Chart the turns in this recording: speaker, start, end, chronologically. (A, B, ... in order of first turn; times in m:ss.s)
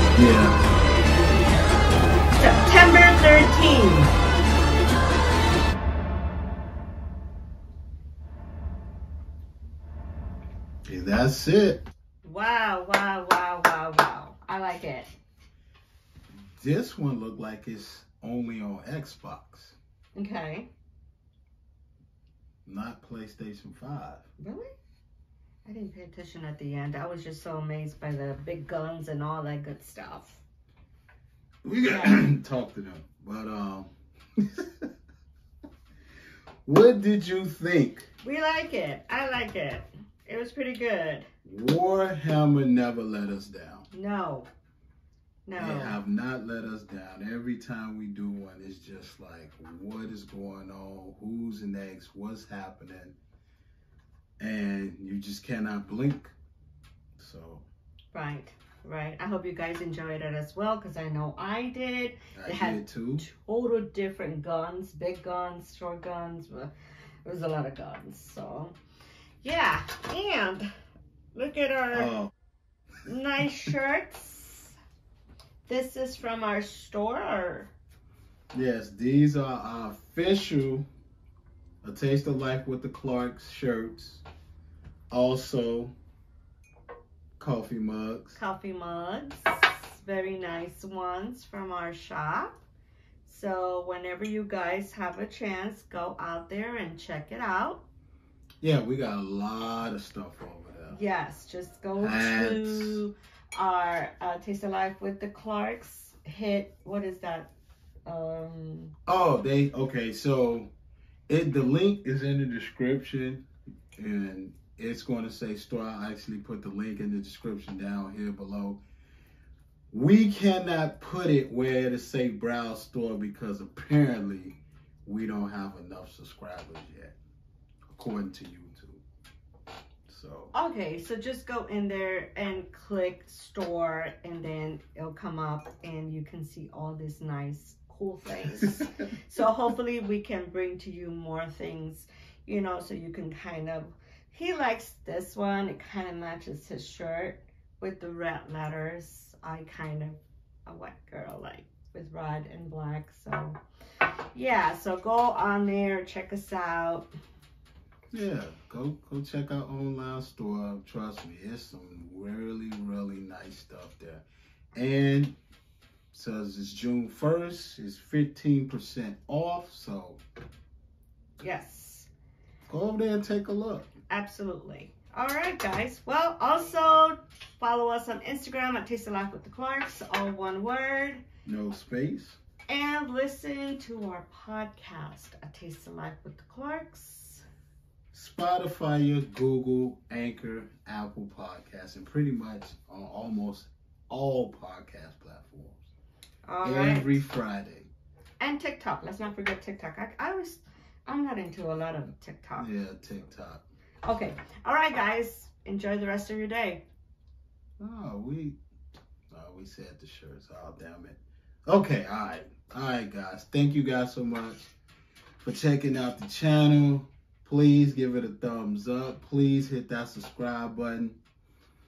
0:00.1-0:00.6 A
0:02.4-0:04.1 B
0:10.8-0:11.8 A
0:12.2-0:15.1 B
0:16.5-0:19.8 A
0:20.1-0:20.7 B
0:22.6-0:24.2 A
0:24.4-0:24.7 B
0:25.6-0:30.4 B
0:31.6-0:34.8 A
0:31.8-0:32.2 B
0:36.6-0:38.0 A
0:38.2-0:41.3 B
0:41.4-0:43.9 A
0:43.9-0:44.5 B
0:45.4-0:46.0 B
0:45.6-0:53.1 A
0:54.4-0:56.3 A
0:57.2-0:57.6 A
0:58.1-1:06.7 B
1:02.4-1:03.3 A
1:07.2-1:08.7 B
1:09.4-1:10.7 B
1:11.3-1:12.1 B
1:11.9-1:12.3 A
1:13.0-1:14.7 B
1:15.6-1:17.7 B
1:18.5-1:20.9 A
1:21.8-1:24.2 A
1:25.1-1:25.9 A
1:27.4-1:28.4 A
1:28.4-1:32.6 B
1:33.2-1:37.8 B
1:38.6-1:41.0 A
1:40.9-1:47.5 B
1:42.0-1:43.0 A
1:48.0-1:48.9 B
1:49.1-1:50.7 A
1:51.3-1:53.4 A
1:54.0-1:58.8 A
1:59.9-2:07.1 A
2:07.9-2:09.0 A
2:10.1-2:10.5 A
2:10.5-2:33.6 B
2:34.3-2:37.1 B
2:38.1-2:45.4 A
2:46.1-2:50.2 A
2:51.4-2:52.1 B
2:52.6-2:53.9 A
2:54.1-3:01.2 B
3:01.4-3:02.4 A
3:02.7-3:07.4 B
3:08.1-3:15.8 A
3:16.4-3:17.2 B
3:16.6-3:17.9 A
3:18.4-3:22.7 B
3:22.6-3:23.6 A
3:24.0-3:26.8 B
3:27.8-3:28.6 A
3:29.3-3:34.7 A
3:35.4-3:41.2 A